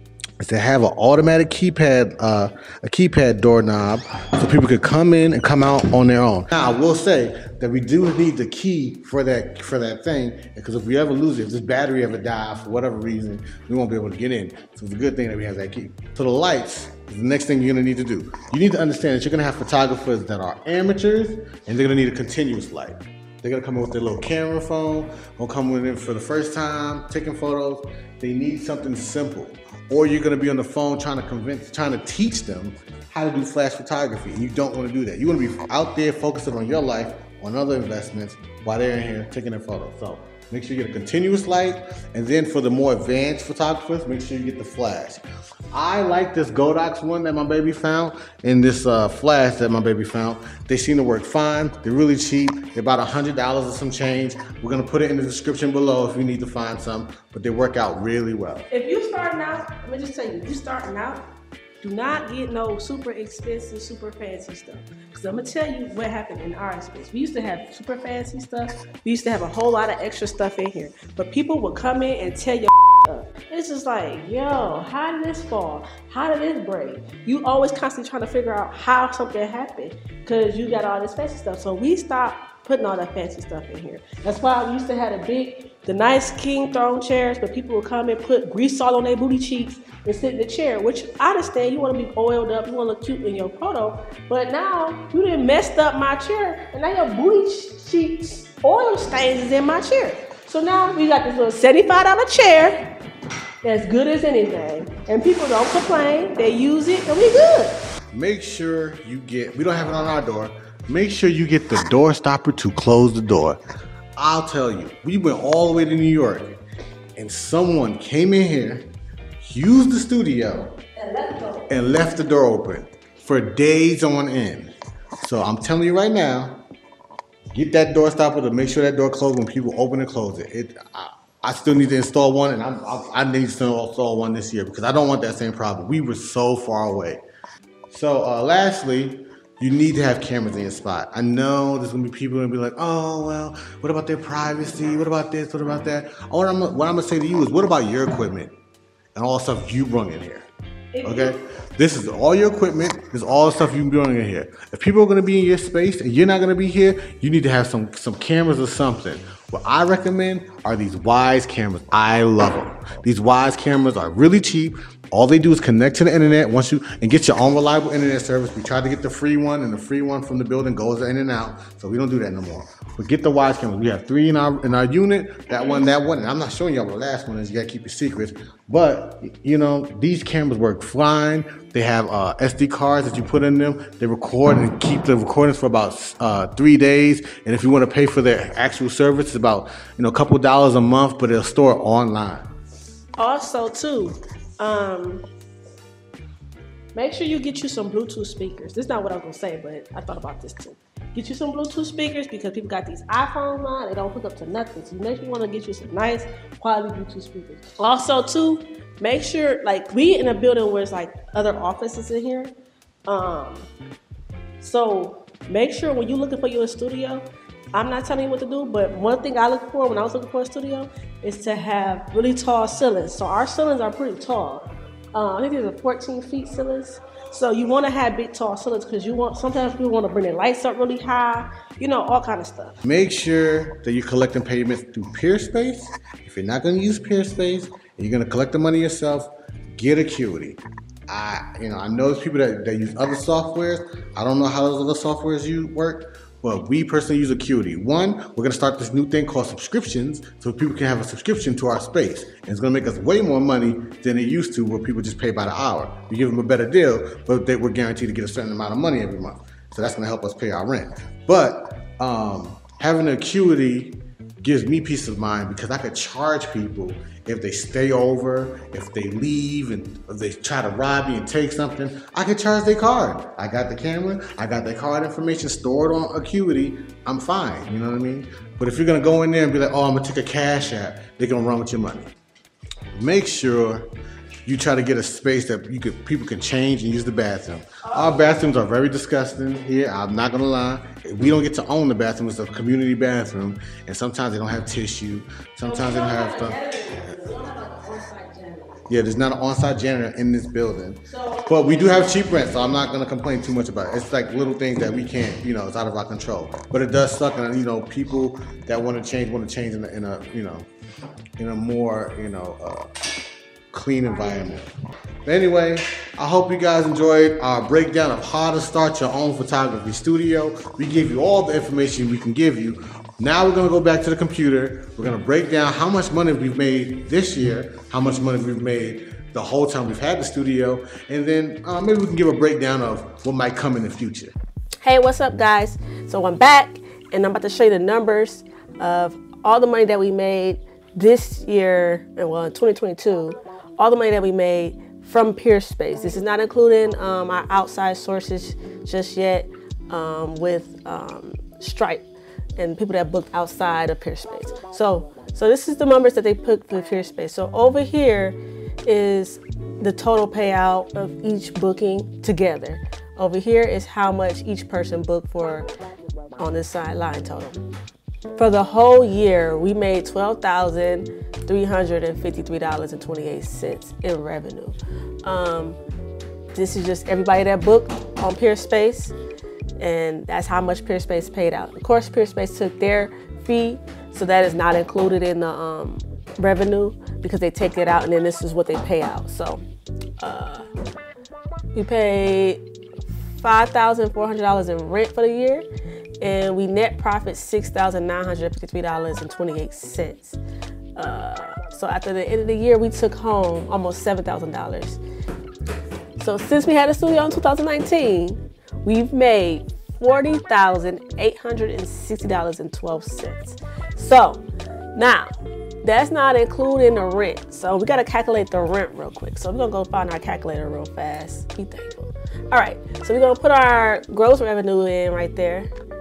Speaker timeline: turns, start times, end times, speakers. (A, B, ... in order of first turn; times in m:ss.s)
0:00.4-0:58.7 A
0:58.7-1:01.2 B
1:01.8-1:42.9 B
1:43.6-1:47.8 B
1:48.1-1:53.6 A
1:54.2-1:56.6 A
1:57.2-1:58.9 A
1:59.4-2:00.8 A
2:01.0-2:01.7 B
2:01.7-2:06.6 A
2:07.5-2:17.2 A
2:17.9-2:28.5 A
2:29.1-2:30.5 A
2:30.9-2:31.4 B
2:31.0-3:12.5 A
2:55.5-2:55.9 B
3:13.2-3:15.2 B
3:16.9-3:32.5 B
3:33.1-3:33.7 B
3:34.6-3:52.8 B
3:52.8-4:42.1 A
4:42.9-4:43.9 A
4:44.4-4:56.6 A
4:47.8-4:48.4 B
4:55.6-4:58.8 B
4:58.9-5:10.7 A
5:01.1-5:02.6 B
5:11.4-5:12.9 A
5:13.7-5:14.7 A
5:14.1-5:14.6 B
5:15.2-5:34.3 A
5:34.8-5:52.0 B
5:52.6-6:05.7 B
6:06.4-6:07.6 B
6:08.4-6:15.8 B
6:16.5-6:19.2 B
6:19.8-6:29.6 B
6:30.2-6:30.7 B
6:31.7-6:32.6 B
6:33.4-6:35.7 B
6:36.2-6:40.4 B
6:41.0-6:45.0 B
6:46.2-6:54.4 B
6:54.9-6:55.3 B
6:55.8-7:05.7 B